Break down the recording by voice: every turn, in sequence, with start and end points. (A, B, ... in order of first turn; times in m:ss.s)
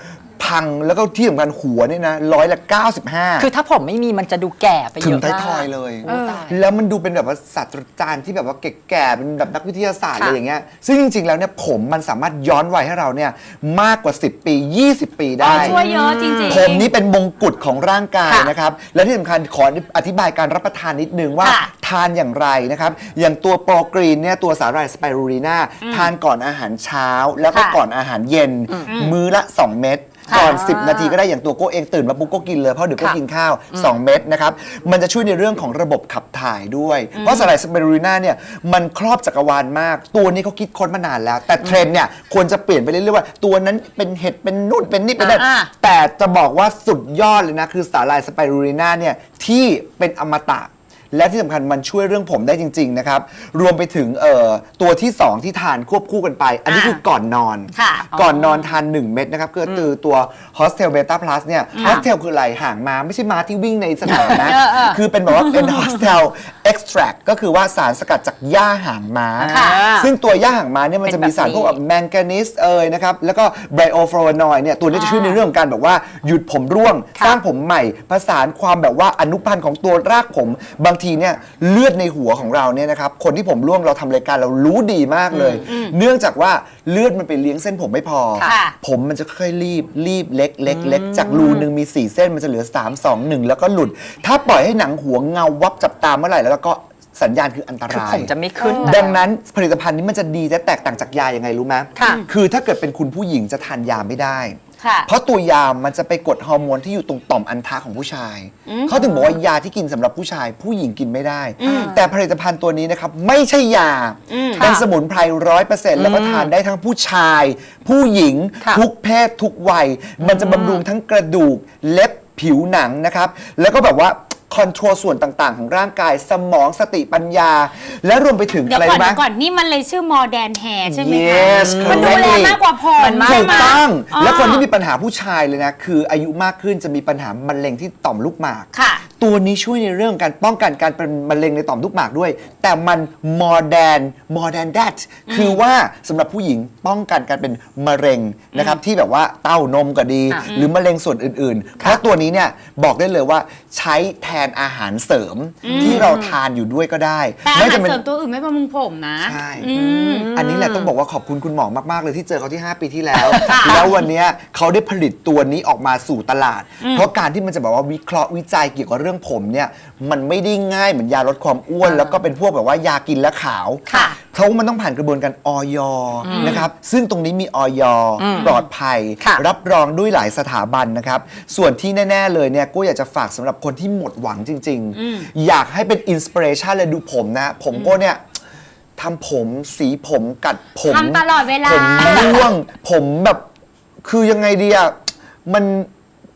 0:00.4-0:03.5 A
0:03.4-0:06.6 B
0:05.0-0:15.8 A
0:06.1-0:06.4 C
0:15.4-0:16.9 C
0:15.6-0:16.7 B
0:16.5-1:38.3 A
0:21.4-0:21.7 C
0:25.8-0:26.1 C
0:27.5-0:27.8 C
0:28.8-0:29.2 C
0:30.3-0:30.6 C
0:30.4-0:31.2 B
0:37.2-0:37.5 C
0:45.2-0:45.7 C
0:56.7-0:57.0 C
0:57.7-0:58.1 C
0:58.1-0:58.7 B
0:59.6-0:59.9 B
1:01.7-1:02.0 C
1:01.8-1:02.0 B
1:04.0-1:04.5 B
1:04.3-1:05.6 C
1:05.6-1:06.2 B
1:09.4-1:10.1 B
1:09.5-1:09.8 C
1:11.0-1:11.8 B
1:15.1-1:15.4 C
1:25.3-1:25.7 B
1:25.6-1:26.0 C
1:28.4-1:28.8 C
1:30.7-1:31.7 B
1:37.9-1:39.2 B
1:38.6-1:39.0 C
1:38.8-2:09.2 A
1:42.0-1:42.2 B
1:42.0-1:42.3 C
1:44.8-1:45.1 C
1:48.7-1:49.4 C
1:51.6-1:51.9 C
1:51.6-1:52.1 B
1:54.3-1:54.7 C
1:54.6-1:54.8 B
1:56.0-1:56.5 B
2:00.2-2:00.8 B
2:08.7-2:14.7 C
2:10.9-2:12.6 A
2:11.5-2:12.4 B
2:13.0-2:13.8 B
2:13.2-2:18.7 A
2:18.7-2:19.0 C
2:19.2-2:38.0 A
2:25.3-2:25.6 C
2:30.5-2:30.7 C
2:35.6-2:36.1 C
2:35.7-2:36.4 B
2:37.4-2:40.3 C
2:39.2-2:39.7 A
2:39.6-2:40.9 B
2:40.4-3:08.2 A
2:43.1-2:44.0 C
2:43.3-2:44.0 B
2:46.8-2:47.1 C
2:51.8-2:52.2 B
2:53.9-2:54.2 B
2:53.9-2:54.2 C
2:56.2-2:56.7 B
2:56.3-2:56.6 C
2:58.2-2:58.6 B
2:58.3-2:58.6 C
2:59.2-2:59.4 B
3:05.0-3:05.3 C
3:07.7-3:08.0 C
3:09.0-3:13.4 A
3:10.8-3:12.5 C
3:14.0-3:15.9 A